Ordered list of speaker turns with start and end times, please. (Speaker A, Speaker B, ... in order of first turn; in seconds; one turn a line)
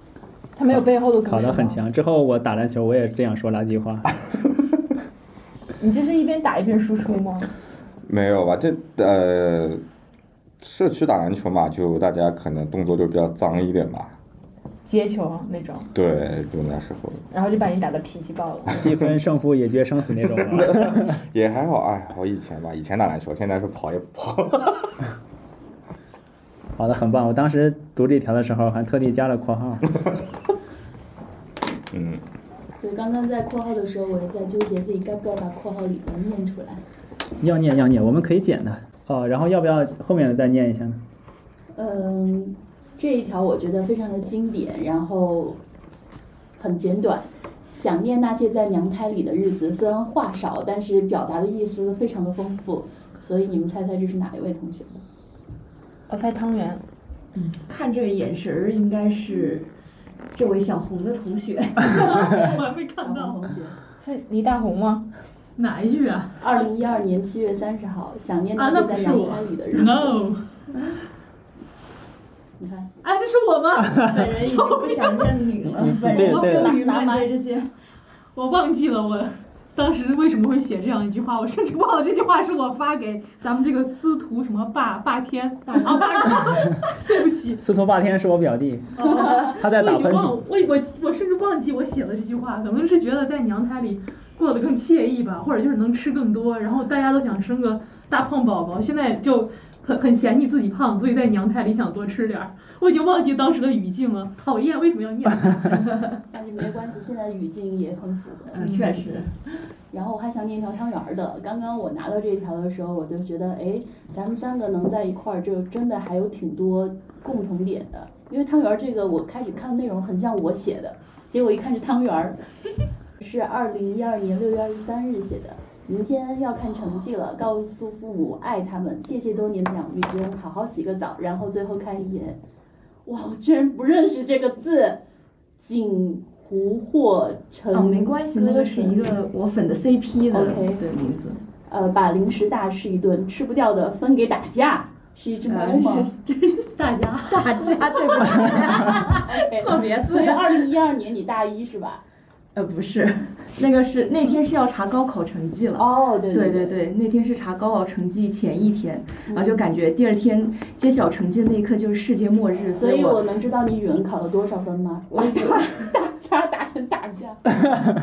Speaker A: 0.6-1.8
Speaker B: 0.7-4.1
Speaker A: 5.8-7.5
Speaker C: 8.0-9.8
Speaker C: 10.6-14.1
Speaker A: 14.9-15.9
Speaker C: 15.9-17.2
Speaker A: 17.3-18.7
Speaker B: 18.7-21.1
Speaker C: 20.2-24.9
Speaker B: 26.8-29.9
Speaker C: 31.9-32.2
Speaker D: 32.8-36.8
Speaker B: 37.4-41.0
Speaker D: 41.8-45.6
Speaker D: 46.6-55.0
Speaker A: 56.1-56.8
Speaker E: 57.4-59.7
Speaker E: 60.3-62.5
Speaker F: 61.8-63.4
Speaker D: 63.0-63.8
Speaker A: 64.0-65.1
Speaker F: 65.6-66.4
Speaker D: 66.4-70.2
Speaker F: 68.5-70.4
Speaker D: 72.6-72.9
Speaker F: 73.0-75.4
Speaker E: 74.0-77.7
Speaker B: 75.6-76.8
Speaker D: 76.5-77.3
Speaker F: 78.3-87.6
Speaker E: 85.8-86.4
Speaker B: 87.6-90.4
Speaker F: 89.0-106.0
Speaker D: 106.3-108.8
Speaker E: 108.5-109.3
Speaker D: 109.9-122.4
Speaker D: 123.2-132.4
Speaker D: 133.1-135.0
Speaker D: 135.6-139.1
Speaker E: 137.7-141.4
Speaker D: 140.3-140.8
Speaker D: 141.7-146.1
Speaker E: 145.4-146.7
Speaker F: 146.8-147.9
Speaker E: 147.2-150.7
Speaker D: 148.2-152.0
Speaker E: 152.5-163.3
Speaker D: 155.8-156.8
Speaker D: 159.3-159.6
Speaker D: 162.8-167.4
Speaker E: 165.1-165.9